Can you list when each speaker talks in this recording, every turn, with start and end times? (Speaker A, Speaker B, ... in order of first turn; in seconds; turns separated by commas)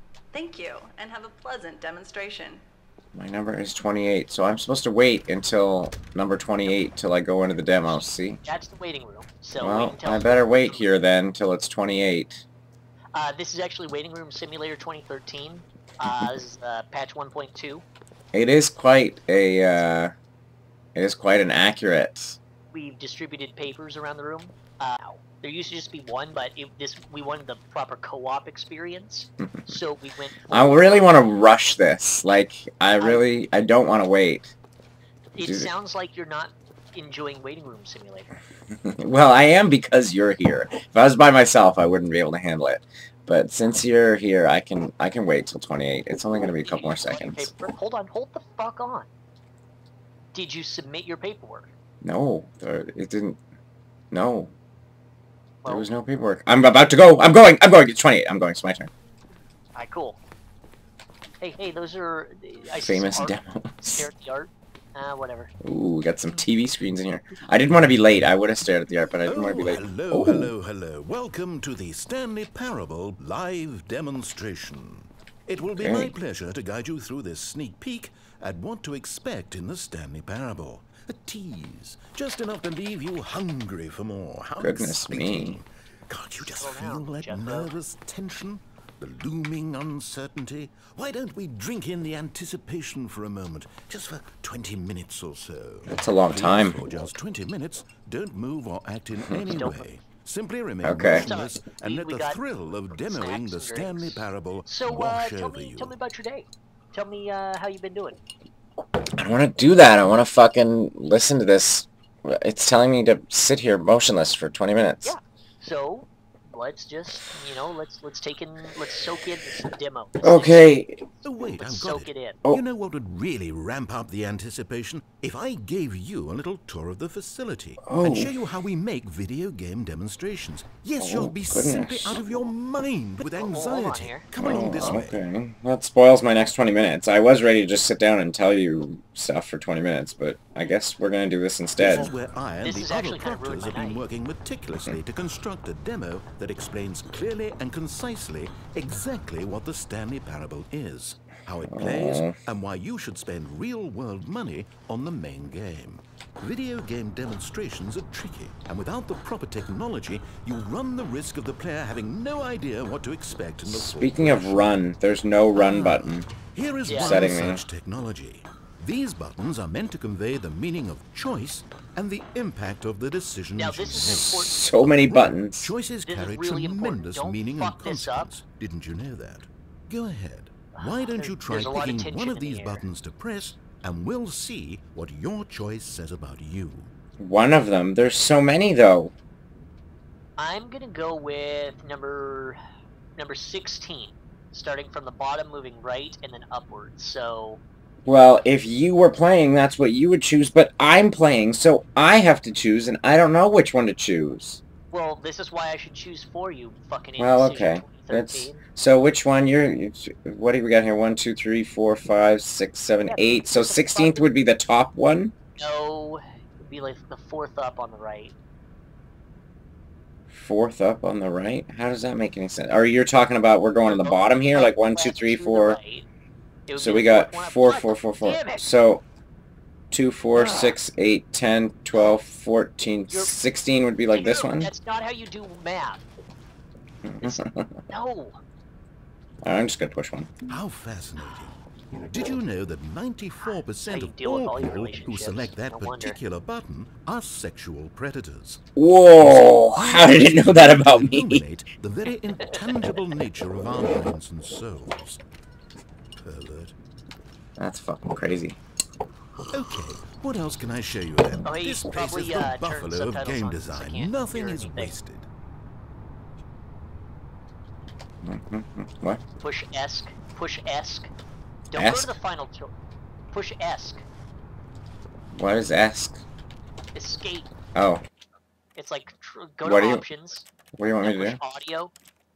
Speaker A: 0.3-2.6, Speaker B: 3.1-8.4, Speaker C: 8.4-10.8, Speaker B: 9.6-12.4, Speaker C: 13.1-17.8, Speaker B: 18.3-20.1, Speaker B: 20.9-22.4, Speaker C: 22.7-31.1, Speaker B: 29.4-29.7, Speaker B: 30.5-34.5, Speaker C: 33.0-33.2, Speaker C: 35.3-38.3, Speaker B: 35.4-35.7, Speaker B: 38.8-47.5, Speaker C: 46.6-49.1, Speaker C: 50.3-51.7, Speaker B: 52.0-53.4, Speaker B: 54.1-54.5, Speaker C: 55.6-55.9, Speaker B: 55.6-58.9, Speaker C: 59.8-60.2, Speaker C: 61.4-65.5, Speaker B: 62.8-64.1, Speaker B: 65.6-70.5, Speaker D: 69.2-105.9, Speaker B: 75.8-76.1, Speaker B: 84.6-85.6, Speaker C: 86.5-87.7, Speaker B: 95.9-96.8, Speaker C: 99.5-99.8, Speaker B: 100.8-101.3, Speaker C: 101.1-102.4, Speaker C: 103.0-108.2, Speaker B: 109.2-115.1, Speaker C: 115.0-120.7, Speaker B: 120.2-121.0, Speaker D: 121.2-135.2, Speaker C: 121.6-122.4, Speaker B: 127.8-128.3, Speaker B: 131.0-132.2, Speaker C: 133.2-134.2, Speaker B: 134.4-142.1, Speaker D: 141.8-164.8, Speaker C: 142.6-144.0, Speaker B: 151.7-152.3, Speaker B: 163.6-166.3, Speaker D: 165.6-186.9, Speaker C: 166.8-167.2, Speaker B: 167.0-167.6, Speaker C: 173.6-174.6, Speaker B: 174.4-175.7, Speaker C: 176.0-178.3, Speaker C: 180.8-182.8, Speaker B: 187.2-189.1, Speaker C: 190.4-192.6, Speaker C: 193.2-197.6, Speaker B: 198.1-204.6, Speaker C: 204.9-208.6, Speaker B: 207.2-215.3, Speaker C: 213.0-214.3, Speaker C: 215.6-218.3, Speaker B: 220.3-225.8, Speaker C: 223.8-226.1, Speaker C: 226.7-228.7, Speaker B: 226.8-229.0, Speaker B: 229.9-234.7, Speaker C: 234.1-236.0, Speaker B: 237.0-237.8, Speaker C: 237.2-238.4, Speaker B: 239.4-240.3, Speaker D: 240.5-248.6, Speaker C: 243.9-246.2, Speaker B: 248.8-251.4, Speaker D: 249.2-255.2, Speaker D: 256.2-256.7, Speaker B: 257.6-258.6, Speaker D: 259.5-265.3, Speaker C: 261.4-264.9, Speaker B: 268.2-269.2, Speaker C: 269.4-271.1, Speaker C: 271.7-272.7, Speaker B: 271.7-272.2, Speaker C: 273.3-274.0, Speaker B: 275.3-276.2, Speaker C: 276.9-277.5, Speaker B: 277.8-278.0, Speaker C: 278.8-280.4, Speaker B: 279.6-280.0, Speaker B: 280.7-281.4, Speaker C: 281.0-281.9